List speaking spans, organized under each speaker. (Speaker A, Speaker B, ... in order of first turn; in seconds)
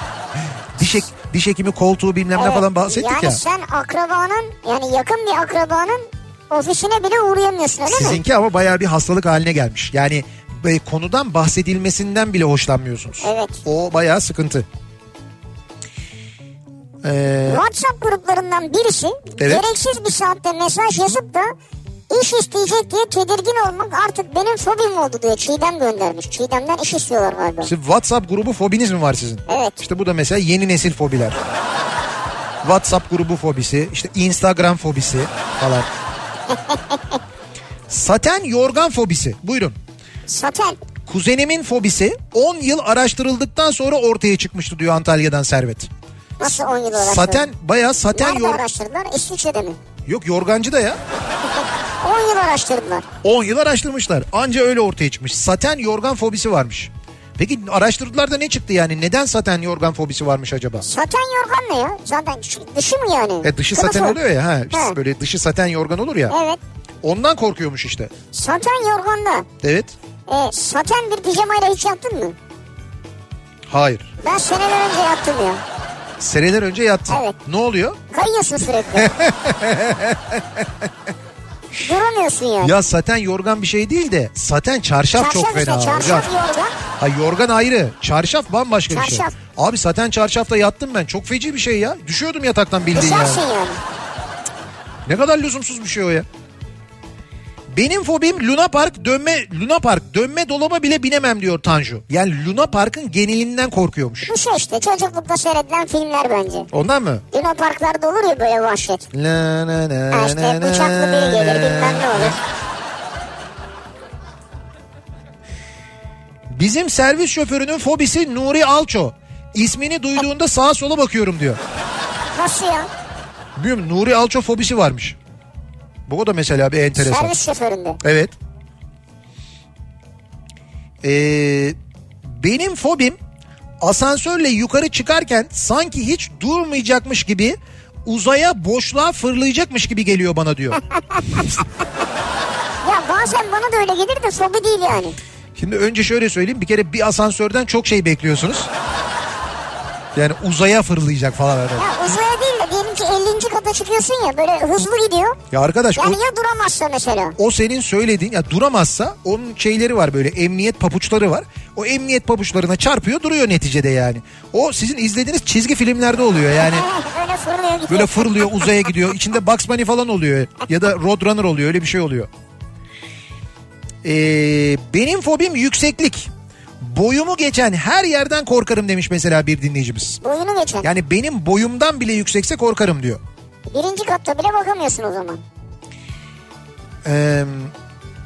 Speaker A: 0.8-3.4, 7.9-14.7, 17.0-17.6, 19.4-19.6, 27.6-31.4, 32.6-35.9, 37.9-39.8, 41.0-45.9, 46.9-48.6, 50.1-51.0, 53.2-60.8, 63.4-66.3, 67.0-68.1, 69.6-69.9, 73.7-74.1, 76.2-78.0, 78.9-80.9, 82.6-86.3, 87.0-93.4, 95.0-96.2, 97.7-104.3, 106.7-107.2, 109.1-112.4, 116.5-121.6, 123.5-125.2, 126.1-127.3, 128.0-128.3, 131.0-133.2, 133.8-140.8, 145.6-148.7, 150.1-151.9, 155.5-156.2, 157.4-166.8, 167.9-172.3, 174.0-180.2, 180.8-183.2, 187.0-187.7
Speaker B: 2.4-8.2, 13.2-13.6, 17.5-21.5, 22.1-27.7, 29.5-29.8, 36.5-37.2, 40.3-40.8, 46.4-47.5, 48.1-49.8, 51.6-53.1, 60.8-64.2, 66.3-66.6, 68.3-69.5, 70.3-72.3, 74.2-75.6, 77.1-77.3, 78.1-79.1, 81.8-82.7, 85.1-86.7, 88.9-89.3, 92.9-93.8, 104.2-106.7, 107.3-109.0, 110.1-112.4, 122.3-122.9, 127.0-128.0, 142.8-145.2, 151.8-155.4, 155.9-157.4, 166.6-168.7, 180.2-180.9, 183.7-185.4